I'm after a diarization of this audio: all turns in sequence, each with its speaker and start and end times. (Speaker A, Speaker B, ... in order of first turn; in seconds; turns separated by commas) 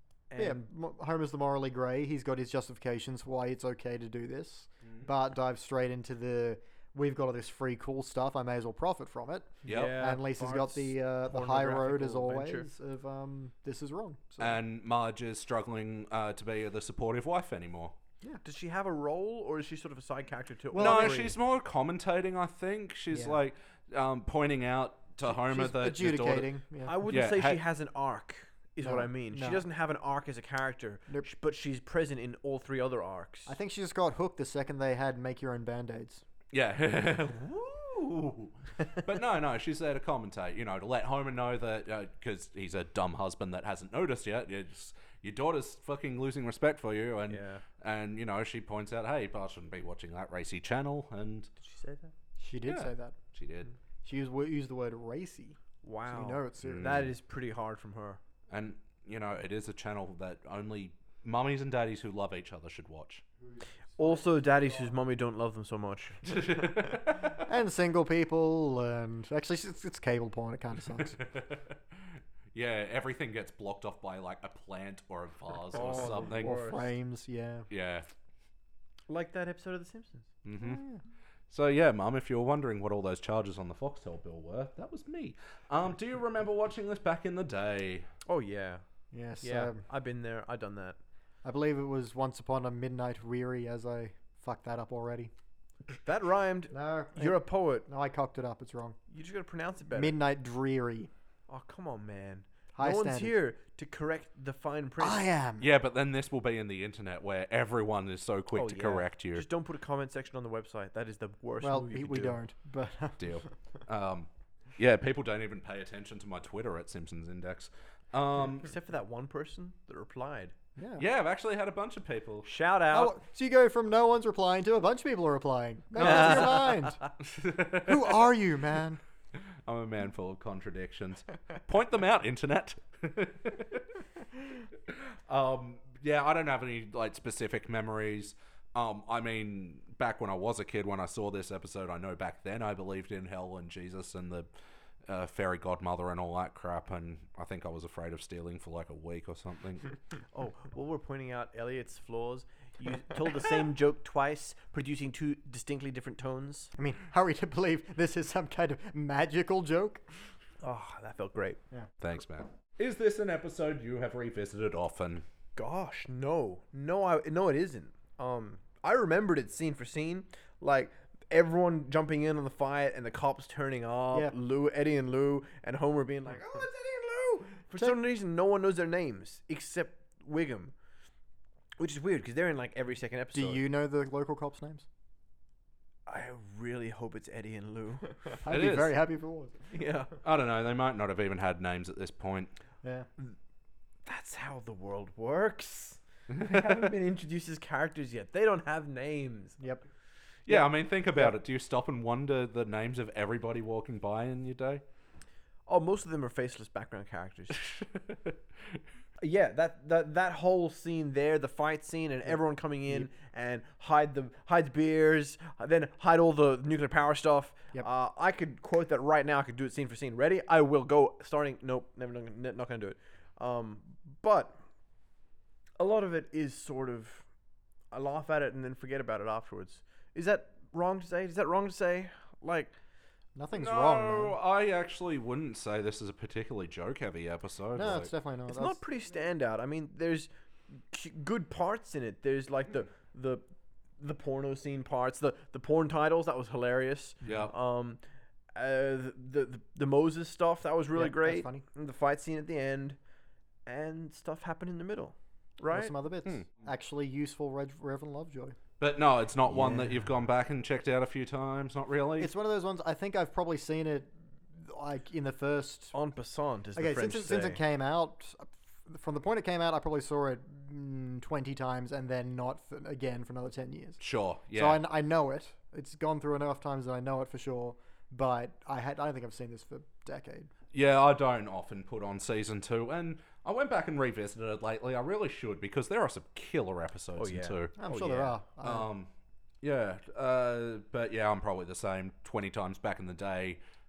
Speaker A: 0.3-0.7, Speaker B: 0.4-14.6, Speaker A: 9.6-12.7, Speaker C: 9.7-10.0, Speaker C: 14.4-17.9, Speaker A: 18.4-21.3, Speaker B: 20.7-21.3, Speaker C: 20.7-26.5, Speaker B: 23.1-23.4, Speaker B: 25.2-27.0, Speaker A: 26.8-33.6, Speaker C: 27.1-27.6, Speaker B: 28.8-29.6, Speaker B: 33.5-36.2, Speaker C: 36.5-51.5, Speaker A: 47.3-47.6, Speaker A: 51.6-52.1, Speaker B: 52.4-53.1, Speaker C: 52.6-53.7, Speaker B: 54.0-57.0, Speaker A: 55.8-58.2, Speaker C: 56.6-57.1, Speaker C: 58.5-63.2, Speaker B: 63.4-64.9, Speaker A: 64.0-67.0, Speaker C: 66.2-67.4, Speaker B: 67.3-71.2, Speaker C: 71.0-71.8, Speaker C: 72.5-76.5, Speaker A: 75.7-76.9, Speaker B: 75.8-77.7, Speaker C: 77.7-78.1, Speaker A: 79.1-80.3, Speaker C: 80.4-80.8, Speaker B: 80.6-81.0, Speaker C: 81.5-88.1, Speaker A: 88.3-88.8, Speaker B: 89.1-89.8, Speaker A: 89.4-91.0, Speaker B: 91.4-95.3, Speaker A: 96.0-97.8, Speaker B: 96.7-99.0, Speaker A: 99.1-100.2, Speaker B: 99.9-101.1, Speaker A: 101.5-105.3, Speaker B: 102.7-103.3, Speaker B: 105.0-105.7, Speaker C: 105.6-109.5, Speaker A: 108.5-112.4, Speaker B: 111.6-113.2, Speaker C: 113.2-118.7, Speaker A: 118.5-120.5, Speaker B: 120.8-121.0, Speaker C: 121.0-122.5, Speaker A: 122.4-123.1, Speaker B: 122.9-127.0, Speaker C: 126.0-128.2, Speaker A: 126.0-127.0, Speaker B: 127.8-129.0, Speaker C: 129.7-133.8, Speaker C: 134.9-144.5, Speaker C: 145.1-149.9, Speaker A: 150.3-156.7, Speaker B: 156.8-160.0, Speaker A: 160.6-161.6, Speaker C: 162.0-165.2, Speaker A: 165.6-180.7, Speaker A: 181.8-183.6, Speaker B: 183.3-184.8, Speaker A: 186.1-188.3, Speaker B: 188.4-189.6, Speaker C: 188.5-188.9, Speaker A: 189.7-190.1, Speaker C: 190.2-192.5, Speaker A: 194.1-199.6, Speaker C: 196.3-196.9, Speaker B: 199.6-199.8, Speaker C: 200.5-204.8, Speaker A: 200.5-201.3, Speaker A: 205.7-207.6, Speaker C: 207.6-208.3, Speaker A: 209.2-224.6, Speaker A: 225.8-227.2, Speaker A: 227.9-232.7, Speaker B: 233.3-234.3, Speaker C: 233.5-238.1, Speaker B: 237.7-238.8, Speaker A: 238.5-243.4, Speaker A: 244.0-248.0, Speaker C: 247.2-247.5, Speaker A: 248.5-253.0, Speaker B: 250.9-251.6, Speaker A: 253.7-255.9, Speaker B: 255.7-258.6, Speaker C: 258.8-262.3, Speaker A: 259.5-260.0, Speaker B: 262.2-265.9, Speaker A: 265.9-267.6, Speaker B: 266.7-274.0, Speaker C: 274.0-274.8, Speaker B: 274.5-280.5, Speaker C: 280.7-287.7, Speaker A: 287.2-288.4, Speaker B: 287.8-288.9, Speaker C: 288.6-289.1, Speaker C: 289.6-293.6